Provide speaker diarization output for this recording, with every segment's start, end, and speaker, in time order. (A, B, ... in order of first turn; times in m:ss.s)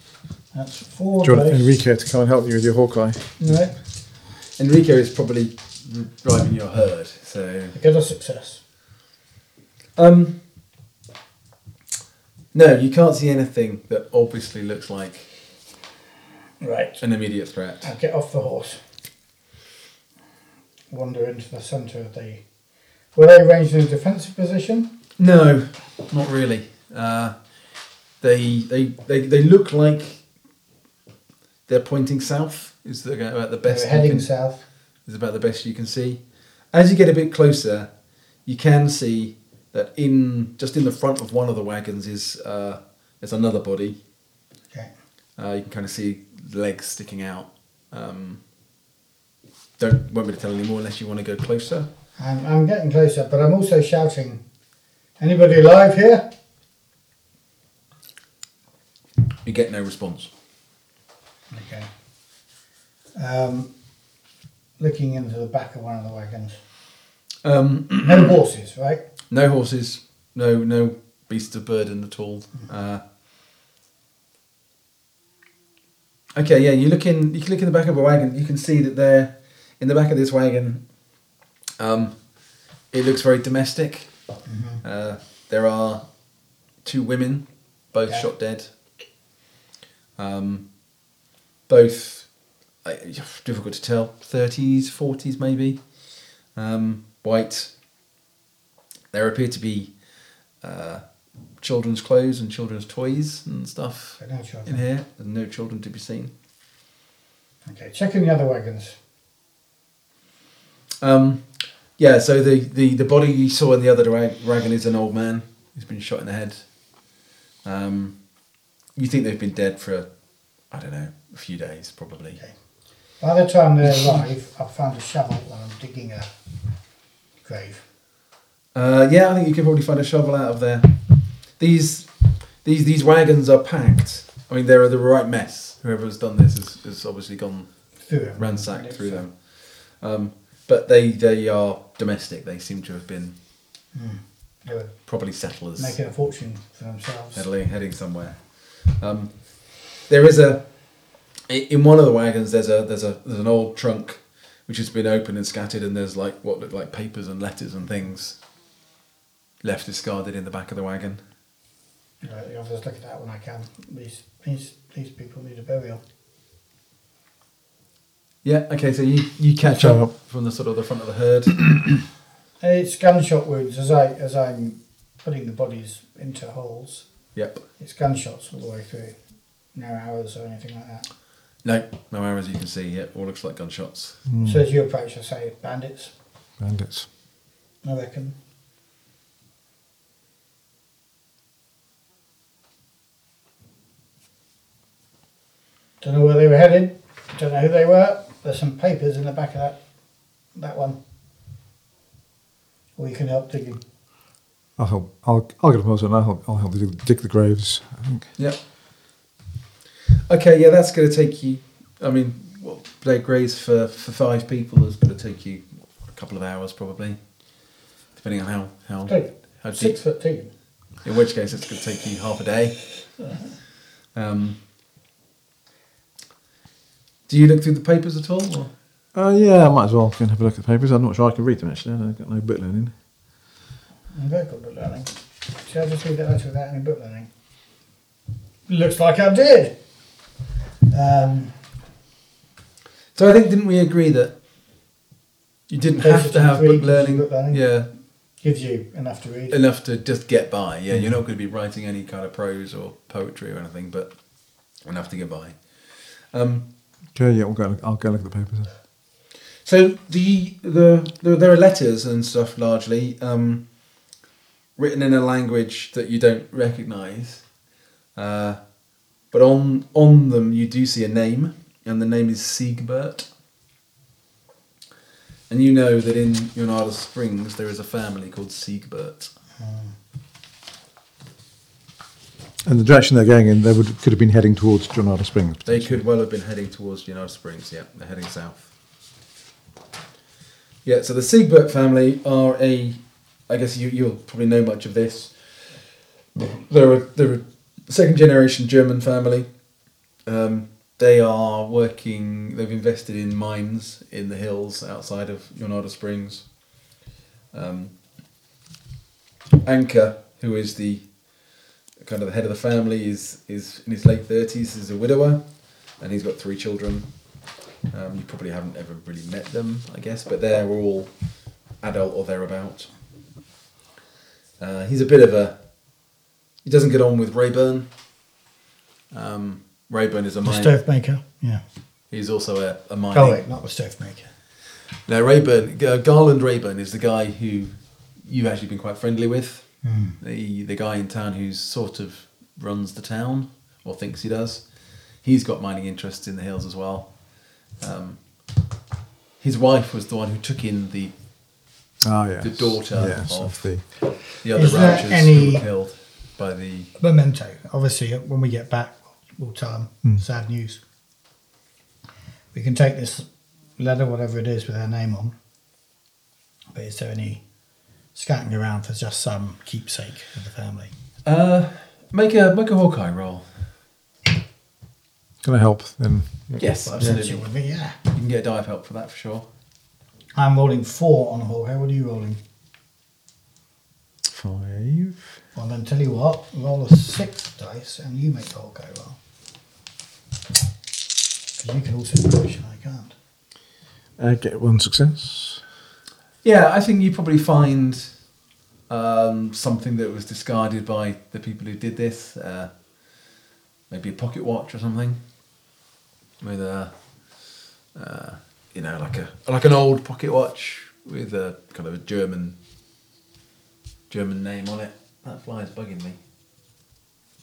0:00.5-0:01.7 A
0:01.2-0:03.5 B
0:03.4-0:03.8 A
0:04.6-0:07.7 C
0:07.7-0:08.6 A
0:10.0-0:10.4 C
0:12.5-0:15.3 C
0:16.6-0:17.0 A
0:17.0-0:17.9 C
0:17.8-0:18.8 A
0:20.9-0:22.4 A
0:23.2-0:25.0 A
0:25.2-0:27.4 C
0:28.2-0:30.2 C
0:31.7-0:34.3 C
0:33.7-0:34.6 A
0:35.0-0:37.9 C
0:38.4-0:44.0 C
0:45.4-0:48.4 C
0:49.8-0:51.9 C
0:52.2-0:54.4 A
0:55.2-0:56.3 A
0:59.4-1:00.3 C
1:01.5-1:01.9 A
1:03.2-1:03.7 A
1:04.8-1:06.6 A
1:07.4-1:08.4 C
1:08.0-1:09.0 A
1:09.3-1:13.0 C
1:16.4-1:21.0 C
1:21.8-1:24.1 C
1:24.5-1:24.8 A
1:24.8-1:26.2 C
1:26.8-1:28.7 C
1:30.2-1:30.8 C
1:31.7-1:37.7 C
1:39.1-1:40.0 C
1:40.6-1:41.0 C
1:41.6-1:46.3 C
1:44.2-1:44.8 A
1:47.7-1:49.0 A
1:51.0-1:56.8 C
1:57.6-1:58.3 C
1:59.0-2:02.4 C
2:03.2-2:06.3 A
2:03.8-2:04.3 C
2:07.4-2:07.8 A
2:08.7-2:11.0 C
2:11.6-2:23.4 C
2:18.0-2:19.2 A
2:23.9-2:25.0 A
2:25.1-2:26.0 C
2:25.8-2:27.4 A
2:27.3-2:30.7 C
2:31.5-2:38.4 C
2:39.6-2:41.2 C
2:42.2-2:46.0 A
2:48.4-2:51.6 C
2:49.6-2:50.1 B
2:52.6-2:57.1 A
2:57.3-2:57.6 C
2:57.8-2:59.2 A
2:59.7-3:01.1 A
3:01.6-3:04.2 C
3:04.3-3:04.6 B
3:04.4-3:06.1 A
3:06.6-3:07.1 B
3:07.8-3:08.4 A
3:16.0-3:19.8 A
3:20.5-3:21.0 A
3:23.0-3:23.8 A
3:24.8-3:28.3 B
3:28.4-3:28.6 C
3:30.3-3:37.6 C
3:38.2-3:40.0 C
3:39.1-3:40.5 A
3:41.0-3:42.9 C
3:44.1-3:44.6 C
3:47.3-3:48.7 C
3:49.1-3:52.9 B
3:54.1-3:57.3 A
3:58.7-3:59.8 A
4:00.9-4:01.6 A
4:03.2-4:04.4 C
4:05.7-4:07.9 C
4:06.0-4:07.8 A
4:08.4-4:09.6 A
4:09.5-4:16.7 C
4:17.2-4:18.7 B
4:19.6-4:23.7 C
4:24.8-4:27.5 C
4:28.1-4:28.7 C
4:29.2-4:33.3 C
4:35.5-4:39.3 C
4:39.6-4:39.9 A
4:42.6-4:46.0 B
4:45.6-4:48.7 C
4:50.8-4:55.8 C
4:56.4-4:59.6 C
5:00.2-5:06.6 C
5:07.5-5:07.9 C
5:09.6-5:17.1 C
5:17.9-5:22.9 C
5:24.6-5:25.6 C
5:26.6-5:27.9 C
5:29.1-5:30.7 C
5:30.4-5:31.6 A
5:32.1-5:33.4 C
5:33.1-5:34.3 A
5:35.1-5:48.2 C
5:39.8-5:40.2 A
5:49.4-5:51.1 C
5:52.0-5:53.9 B
5:52.4-5:56.9 C
5:54.5-5:55.6 A
5:57.0-6:00.8 A
6:02.5-6:03.3 A
6:03.8-6:05.4 A
6:06.7-6:07.4 A
6:08.1-6:10.9 A
6:11.2-6:13.5 C
6:15.4-6:16.6 B
6:16.6-6:17.5 C
6:16.8-6:18.0 A
6:18.1-6:19.5 C
6:20.4-6:22.4 A
6:24.3-6:25.3 B
6:25.6-6:29.2 A
6:31.6-6:33.1 A
6:34.2-6:35.6 B
6:36.4-6:38.2 C
6:38.9-6:42.8 C
6:43.9-6:45.2 C
6:46.4-6:52.6 C
6:54.1-6:56.2 C